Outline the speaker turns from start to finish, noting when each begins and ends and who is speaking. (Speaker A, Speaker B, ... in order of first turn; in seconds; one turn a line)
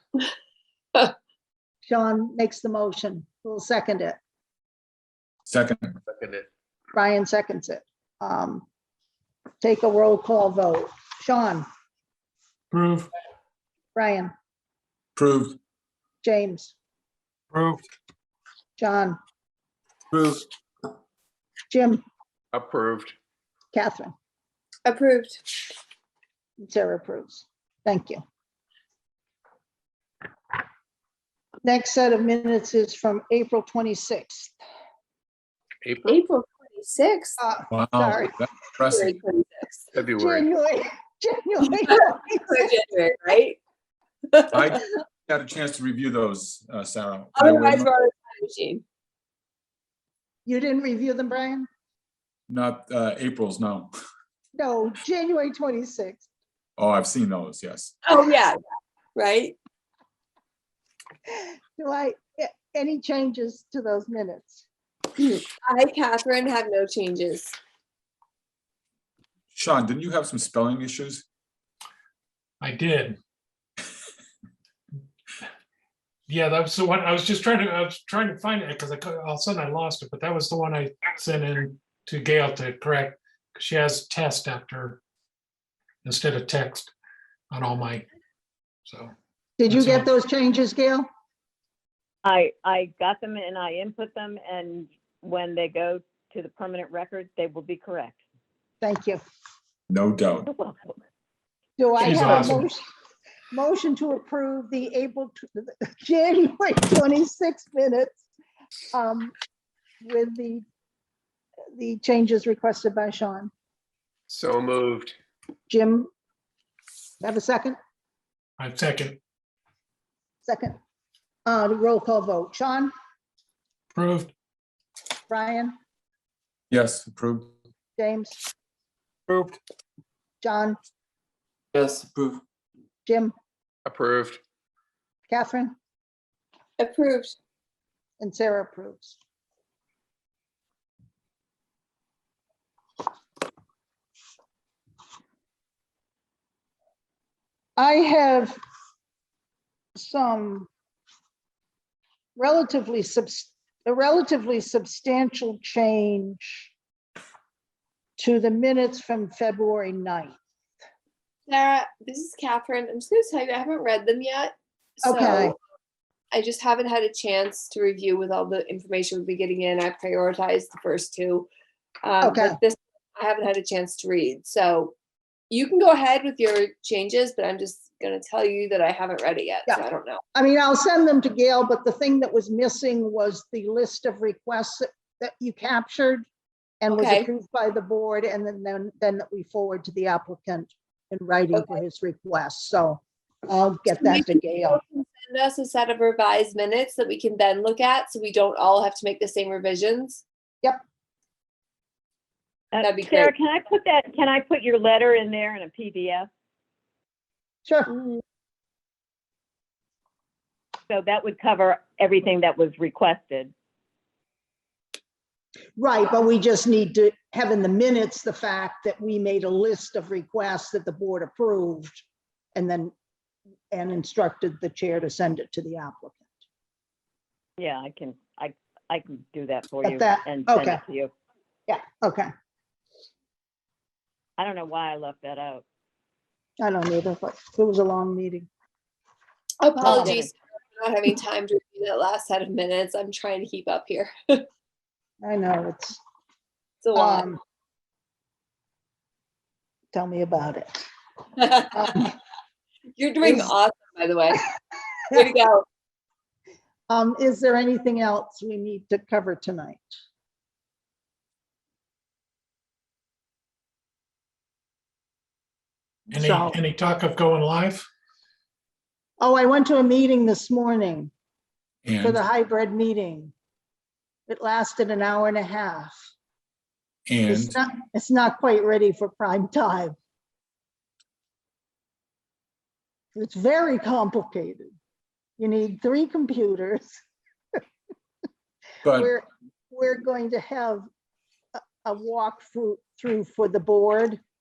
Speaker A: 1.9-4.2
Speaker B: 5.5-5.9
Speaker C: 6.1-6.5
Speaker A: 6.9-8.7
Speaker A: 9.6-11.7
Speaker D: 12.7-13.1
Speaker A: 13.9-14.3
Speaker B: 15.2-15.6
Speaker A: 16.2-16.7
Speaker D: 17.5-17.8
Speaker A: 18.8-19.2
Speaker B: 20.1-20.5
Speaker A: 21.7-22.0
Speaker C: 22.5-23.1
Speaker A: 23.7-24.1
Speaker E: 24.8-25.4
Speaker A: 26.6-28.2
Speaker A: 31.6-34.5
Speaker C: 35.8-36.1
Speaker E: 36.0-37.4
Speaker A: 37.4-38.3
Speaker B: 37.7-39.1
Speaker E: 38.9-39.9
Speaker C: 39.9-40.5
Speaker A: 40.1-42.7
Speaker E: 41.8-43.6
Speaker B: 44.5-47.9
Speaker E: 47.4-48.8
Speaker A: 50.5-51.7
Speaker B: 52.5-53.9
Speaker A: 54.5-56.3
Speaker B: 56.8-58.0
Speaker E: 58.0-58.6
Speaker E: 59.2-59.6
Speaker A: 61.4-64.6
Speaker E: 65.2-67.5
Speaker B: 69.5-71.2
Speaker D: 72.6-73.2
Speaker D: 76.3-85.0
Speaker D: 86.0-86.9
Speaker D: 87.5-88.1
Speaker D: 88.9-89.1
Speaker A: 89.6-91.1
Speaker D: 89.7-90.1
Speaker F: 92.2-98.2
Speaker A: 98.8-99.2
Speaker B: 99.9-100.5
Speaker F: 100.5-101.0
Speaker A: 101.8-102.8
Speaker D: 102.0-102.7
Speaker A: 103.5-108.2
Speaker A: 108.9-109.3
Speaker A: 110.0-110.6
Speaker A: 111.8-113.5
Speaker C: 114.3-115.2
Speaker A: 115.7-116.1
Speaker A: 117.2-117.8
Speaker D: 118.6-119.2
Speaker A: 120.4-120.8
Speaker A: 121.5-122.9
Speaker D: 123.9-124.3
Speaker A: 125.3-125.8
Speaker B: 126.7-127.5
Speaker A: 128.0-128.4
Speaker D: 129.3-129.6
Speaker A: 130.4-130.8
Speaker A: 133.0-133.3
Speaker C: 133.8-134.4
Speaker A: 135.3-135.8
Speaker E: 136.8-137.3
Speaker A: 138.2-139.2
Speaker A: 147.8-148.6
Speaker A: 149.9-150.7
Speaker A: 152.3-156.7
Speaker A: 158.2-160.3
Speaker E: 161.5-165.5
Speaker A: 165.0-165.5
Speaker E: 166.3-171.5
Speaker E: 172.0-174.9
Speaker A: 172.2-172.6
Speaker E: 175.5-180.2
Speaker A: 180.3-186.2
Speaker A: 186.8-194.8
Speaker E: 186.9-187.3
Speaker E: 191.5-191.8
Speaker E: 194.0-200.2
Speaker F: 202.7-206.3
Speaker E: 202.8-203.3
Speaker A: 207.7-207.9
Speaker E: 207.9-208.2
Speaker F: 210.9-213.5
Speaker A: 215.8-222.0
Speaker A: 222.5-222.9
Speaker A: 223.7-226.3
Speaker F: 227.6-231.1
Speaker A: 229.8-230.8
Speaker A: 231.7-232.3
Speaker F: 234.4-235.6
Speaker A: 236.6-238.5
Speaker E: 239.6-244.4
Speaker A: 239.8-240.3
Speaker F: 239.8-240.2
Speaker A: 245.2-246.0
Speaker E: 246.8-247.2
Speaker A: 246.9-247.4
Speaker A: 249.9-250.8
Speaker E: 251.4-252.1
Speaker A: 251.7-252.1
Speaker E: 253.0-254.5
Speaker A: 253.2-253.5
Speaker E: 255.1-255.7
Speaker A: 256.9-259.8
Speaker D: 266.1-267.9
Speaker A: 266.2-266.6
Speaker A: 269.2-271.1
Speaker B: 271.9-272.2
Speaker A: 272.0-273.3
Speaker A: 274.3-276.0
Speaker B: 277.1-277.6
Speaker A: 277.3-280.0
Speaker A: 283.1-284.8
Speaker A: 285.4-287.0
Speaker B: 288.8-289.1
Speaker A: 288.9-290.9
Speaker A: 291.6-294.2